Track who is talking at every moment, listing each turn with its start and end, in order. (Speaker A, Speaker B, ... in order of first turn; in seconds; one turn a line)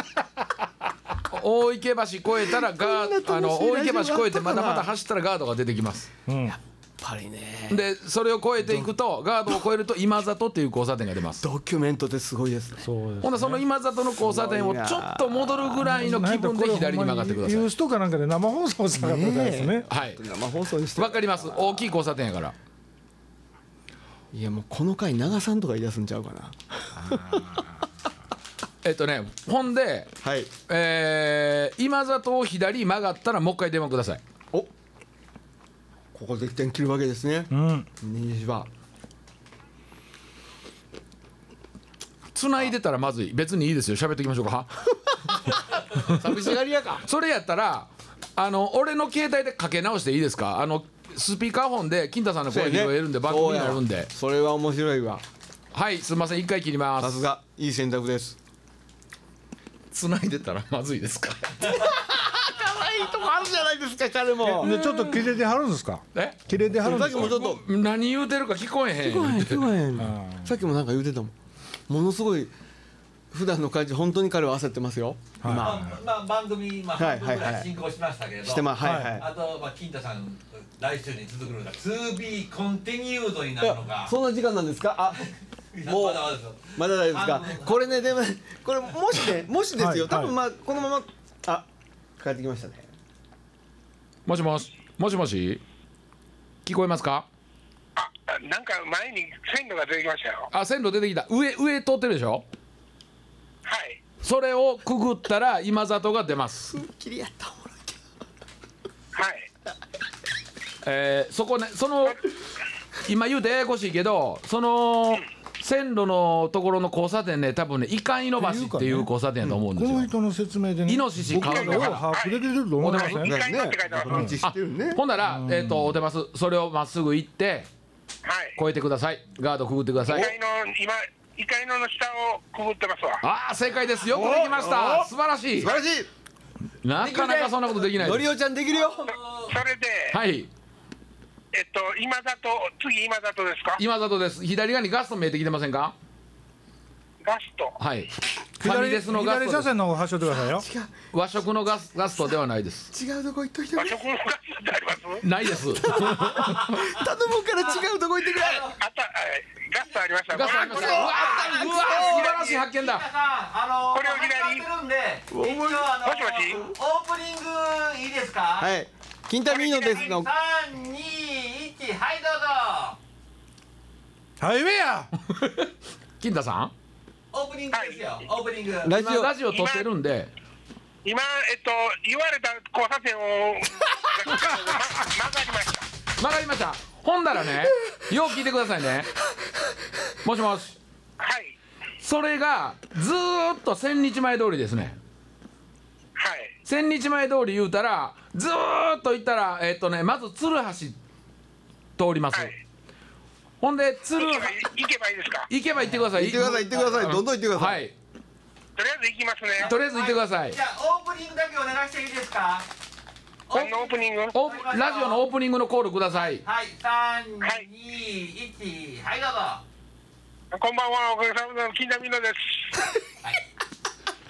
Speaker A: 1.3-6.1
Speaker B: 2.5-4.9
Speaker C: 6.3-6.6
Speaker B: 6.5-7.8
Speaker A: 7.7-11.4
Speaker B: 8.6-8.9
Speaker B: 11.4-12.9
Speaker C: 12.8-13.6
Speaker A: 13.2-17.7
Speaker B: 14.1-16.0
Speaker C: 15.8-19.9
Speaker B: 19.0-21.9
Speaker A: 19.9-20.2
Speaker A: 21.0-22.6
Speaker B: 24.3-27.6
Speaker A: 28.8-30.1
Speaker B: 30.2-30.5
Speaker A: 30.7-34.2
Speaker B: 36.1-38.7
Speaker C: 37.5-37.9
Speaker A: 42.3-44.9
Speaker A: 46.0-54.1
Speaker B: 46.0-47.0
Speaker B: 52.5-55.2
Speaker A: 55.7-57.2
Speaker B: 57.0-58.4
Speaker A: 59.9-61.9
Speaker B: 61.7-64.7
Speaker C: 64.5-67.4
Speaker A: 64.5-65.2
Speaker A: 66.1-69.7
Speaker B: 66.8-67.6
Speaker B: 69.0-71.3
Speaker C: 70.0-70.5
Speaker B: 71.9-72.5
Speaker B: 73.3-75.9
Speaker C: 75.4-76.0
Speaker D: 75.5-84.2
Speaker B: 77.0-77.7
Speaker B: 78.4-79.3
Speaker C: 78.8-79.2
Speaker B: 83.6-85.2
Speaker D: 85.2-88.0
Speaker B: 85.9-91.7
Speaker C: 89.8-90.3
Speaker B: 92.2-92.8
Speaker A: 94.3-95.6
Speaker A: 96.7-97.3
Speaker E: 98.0-100.5
Speaker A: 100.5-102.4
Speaker E: 103.7-104.0
Speaker A: 104.2-106.7
Speaker B: 106.7-108.0
Speaker E: 109.2-109.5
Speaker A: 110.8-112.2
Speaker A: 113.1-120.1
Speaker C: 118.4-123.4
Speaker A: 120.9-122.0
Speaker E: 121.4-124.4
Speaker A: 122.8-123.3
Speaker B: 123.2-125.0
Speaker C: 124.1-124.3
Speaker A: 124.4-127.7
Speaker C: 125.2-125.9
Speaker E: 128.2-128.6
Speaker A: 128.6-130.3
Speaker E: 130.1-133.2
Speaker A: 133.2-135.8
Speaker B: 134.1-135.1
Speaker B: 135.6-136.1
Speaker A: 136.8-138.3
Speaker B: 137.0-139.1
Speaker D: 138.7-139.6
Speaker E: 139.5-140.2
Speaker A: 140.1-140.5
Speaker E: 141.5-143.8
Speaker A: 143.8-145.9
Speaker E: 147.2-147.8
Speaker A: 147.8-149.7
Speaker C: 148.6-150.7
Speaker B: 150.4-150.9
Speaker A: 151.1-152.9
Speaker B: 152.9-154.0
Speaker E: 153.8-155.2
Speaker A: 155.2-156.8
Speaker B: 155.8-158.7
Speaker D: 156.2-156.7
Speaker D: 158.3-158.8
Speaker E: 158.7-161.2
Speaker A: 160.3-163.1
Speaker D: 160.4-168.7
Speaker B: 160.6-162.3
Speaker E: 163.9-164.7
Speaker B: 165.3-166.0
Speaker E: 166.0-166.6
Speaker B: 168.6-170.3
Speaker D: 169.4-173.0
Speaker C: 174.4-175.1
Speaker A: 175.2-175.7
Speaker A: 176.2-176.7
Speaker D: 177.3-178.9
Speaker E: 177.7-178.1
Speaker B: 178.8-179.3
Speaker A: 178.9-180.3
Speaker E: 179.5-179.9
Speaker E: 181.1-185.9
Speaker A: 186.2-189.1
Speaker A: 190.2-190.8
Speaker E: 191.2-191.6
Speaker A: 192.0-195.0
Speaker E: 196.2-196.5
Speaker A: 196.7-201.0
Speaker A: 202.0-202.5
Speaker A: 203.6-204.6
Speaker E: 204.1-205.5
Speaker A: 205.5-207.9
Speaker B: 206.1-207.8
Speaker E: 208.8-209.8
Speaker D: 209.6-212.7
Speaker A: 209.6-210.6
Speaker D: 213.5-215.2
Speaker E: 213.5-214.4
Speaker A: 214.3-216.4
Speaker D: 216.2-219.6
Speaker E: 220.5-222.7